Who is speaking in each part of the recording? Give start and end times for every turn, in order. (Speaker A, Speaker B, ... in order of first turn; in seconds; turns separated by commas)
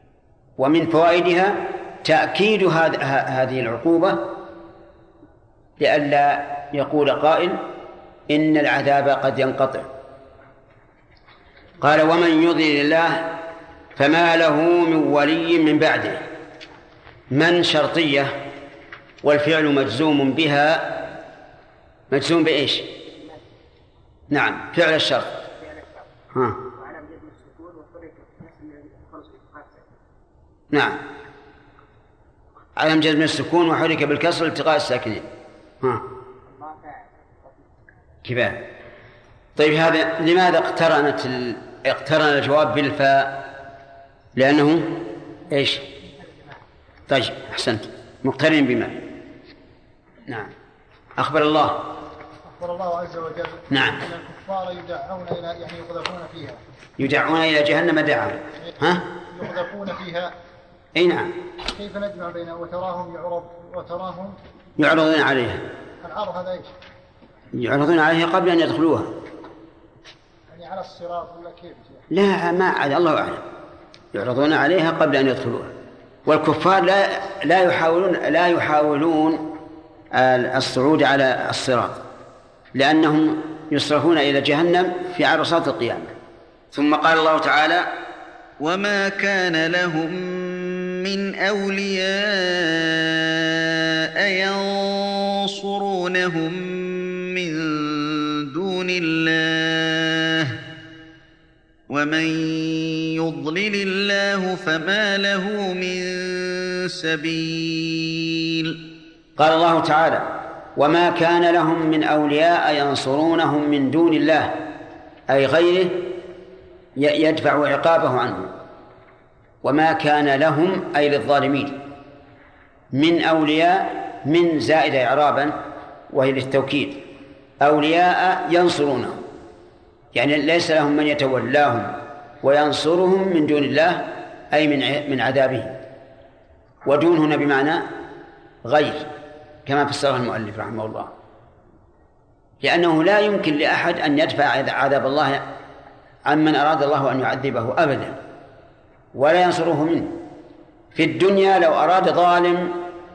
Speaker A: 0.6-4.3, Speaker A: 5.8-7.6, Speaker A: 8.3-9.9, Speaker A: 11.8-13.4, Speaker A: 14.0-16.2, Speaker A: 17.3-18.4, Speaker A: 19.2-21.1, Speaker A: 22.1-22.9, Speaker A: 24.3-25.4, Speaker A: 26.3-26.6, Speaker B: 26.8-29.8, Speaker A: 30.7-31.0, Speaker A: 32.8-35.3, Speaker B: 36.5-36.9, Speaker A: 38.2-38.6, Speaker A: 39.6-43.4, Speaker A: 44.4-45.9, Speaker A: 47.1-49.1, Speaker A: 50.3-50.5, Speaker A: 51.2-51.9, Speaker B: 52.5-56.6, Speaker A: 53.7-54.0, Speaker A: 57.0-59.0, Speaker B: 59.3-60.3, Speaker A: 61.0-61.3, Speaker B: 61.7-64.4, Speaker A: 64.8-65.6, Speaker B: 66.0-66.7, Speaker A: 67.5-69.1, Speaker B: 70.5-72.0, Speaker A: 72.1-73.4, Speaker A: 74.1-75.7, Speaker A: 76.3-79.5, Speaker A: 80.1-82.0, Speaker A: 82.8-86.1, Speaker A: 86.7-87.9, Speaker C: 88.6-100.6, Speaker C: 101.9-108.8, Speaker A: 109.4-114.7, Speaker A: 115.3-116.2, Speaker A: 117.0-118.5, Speaker A: 119.6-121.8, Speaker A: 122.9-125.5, Speaker A: 126.1-127.0, Speaker A: 127.6-129.2, Speaker A: 130.1-135.8, Speaker A: 136.9-137.9, Speaker A: 138.7-139.1, Speaker A: 139.7-141.1, Speaker A: 142.6-145.4, Speaker A: 146.3-148.2, Speaker A: 149.2-150.2, Speaker A: 150.9-152.8